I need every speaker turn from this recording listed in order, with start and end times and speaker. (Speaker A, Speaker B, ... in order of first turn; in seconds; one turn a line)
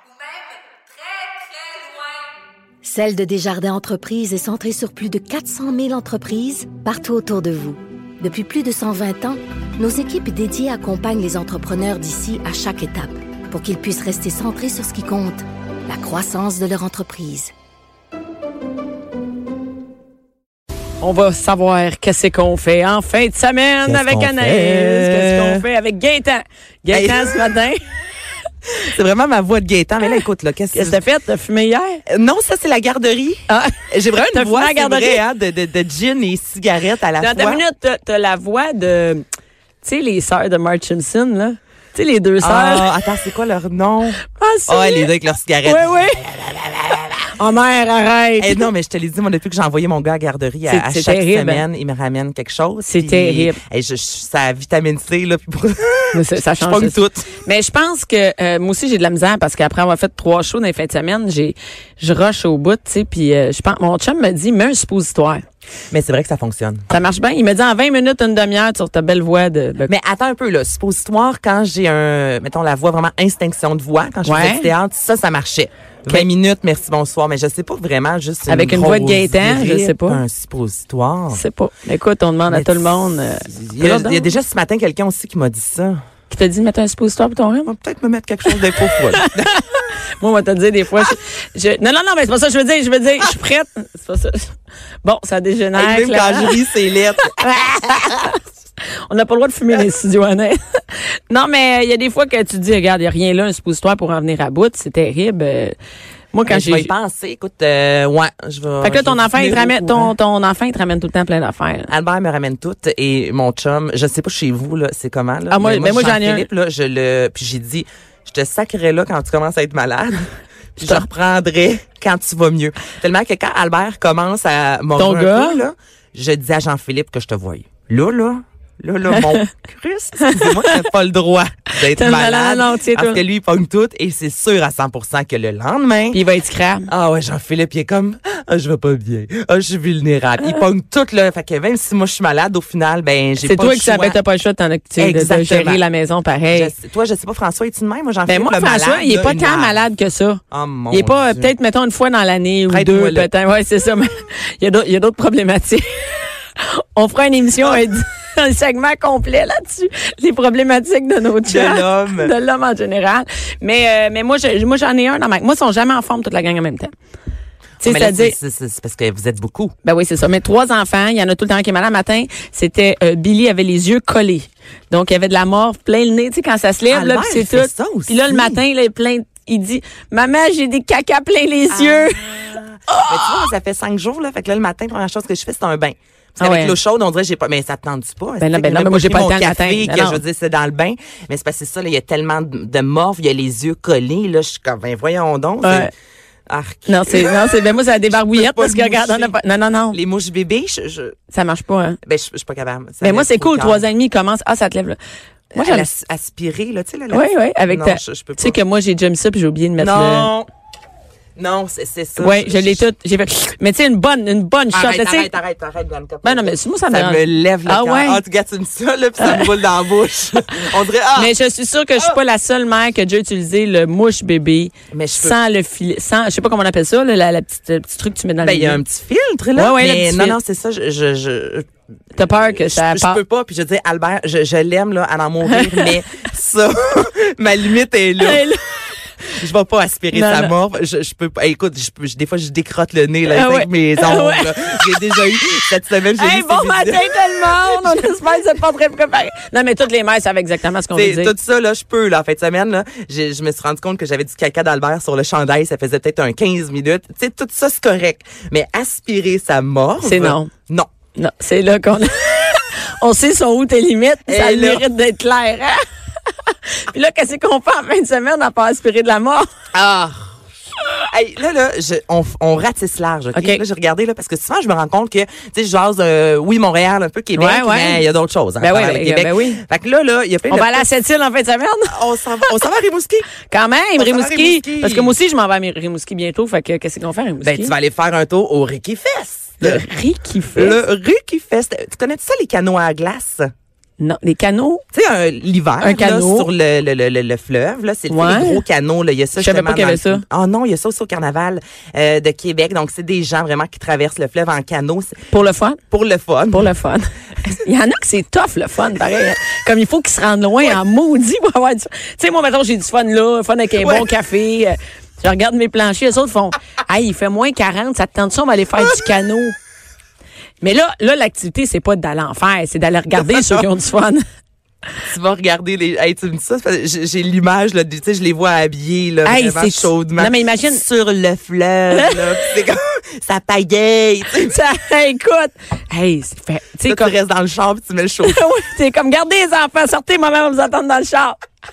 Speaker A: 1.1-1.8
Speaker B: 2.8-17.5
Speaker A: 21.0-27.8
Speaker C: 23.8-25.6
Speaker C: 26.9-27.4
Speaker C: 28.7-31.0
Speaker A: 30.7-32.0
Speaker C: 32.1-37.6
Speaker A: 33.5-35.2
Speaker A: 37.2-39.2
Speaker A: 39.8-42.9
Speaker C: 42.4-47.3
Speaker A: 44.2-46.5
Speaker A: 47.2-48.7
Speaker C: 48.4-57.3
Speaker A: 50.6-51.6
Speaker A: 52.8-53.6
Speaker A: 56.1-65.4
Speaker C: 65.9-66.8
Speaker A: 66.9-69.9
Speaker C: 69.9-81.4
Speaker A: 74.2-74.7
Speaker A: 78.5-80.2
Speaker A: 81.3-84.3
Speaker C: 82.5-86.0
Speaker A: 86.3-87.7
Speaker C: 87.6-89.5
Speaker A: 88.5-96.6
Speaker C: 95.7-98.3
Speaker A: 97.3-98.4
Speaker A: 99.0-105.7
Speaker A: 106.3-106.9
Speaker C: 106.5-110.1
Speaker A: 108.8-111.9
Speaker C: 111.9-136.2
Speaker A: 115.5-116.5
Speaker A: 125.0-125.6
Speaker A: 129.1-129.4
Speaker A: 130.2-130.8
Speaker A: 131.8-133.2
Speaker A: 136.1-136.9
Speaker C: 136.9-144.2
Speaker A: 143.4-146.7
Speaker C: 145.0-145.8
Speaker C: 146.5-149.8
Speaker A: 148.2-166.9
Speaker C: 150.5-151.5
Speaker C: 152.7-153.3
Speaker C: 161.4-162.3
Speaker A: 167.8-168.3
Speaker C: 167.8-169.7
Speaker A: 169.8-183.5
Speaker C: 176.9-178.6
Speaker C: 181.7-195.9
Speaker A: 186.4-186.8
Speaker A: 188.4-190.2
Speaker A: 195.6-195.9
Speaker C: 196.5-199.3
Speaker A: 196.9-200.0
Speaker C: 199.9-201.2
Speaker A: 201.3-202.0
Speaker C: 202.1-203.8
Speaker A: 203.0-205.0
Speaker A: 205.5-205.9
Speaker C: 205.5-208.6
Speaker A: 207.1-210.3
Speaker C: 209.8-210.5
Speaker C: 211.4-212.9
Speaker A: 212.2-215.3
Speaker C: 214.7-221.3
Speaker A: 216.2-218.2
Speaker A: 219.2-219.5
Speaker A: 221.2-228.8
Speaker C: 224.9-225.4
Speaker C: 228.4-238.4
Speaker A: 229.5-230.4
Speaker A: 232.2-233.2
Speaker A: 235.4-235.9
Speaker A: 238.2-238.9
Speaker C: 239.3-248.2
Speaker A: 240.1-240.5
Speaker A: 243.3-245.2
Speaker A: 246.2-251.3
Speaker C: 250.9-260.9
Speaker A: 260.0-260.5
Speaker A: 261.1-269.4
Speaker C: 264.3-264.8
Speaker C: 269.7-270.3
Speaker C: 271.1-280.9
Speaker A: 273.3-273.6
Speaker A: 277.3-278.0
Speaker A: 278.6-279.6
Speaker A: 280.5-281.9
Speaker C: 281.9-283.3
Speaker A: 283.5-287.7
Speaker C: 284.0-285.2
Speaker C: 287.4-289.8
Speaker A: 289.6-290.8
Speaker C: 290.5-293.5
Speaker A: 294.0-294.8
Speaker C: 294.9-305.1
Speaker A: 295.8-296.5
Speaker A: 298.1-298.6
Speaker A: 299.4-300.2
Speaker A: 305.3-305.8
Speaker C: 305.9-306.7
Speaker A: 306.5-319.6
Speaker C: 313.7-314.1
Speaker A: 320.6-324.2
Speaker C: 323.1-323.7
Speaker C: 325.1-334.6
Speaker A: 329.2-330.8
Speaker A: 331.9-332.2
Speaker A: 334.4-337.1
Speaker C: 336.8-338.4
Speaker A: 338.2-341.4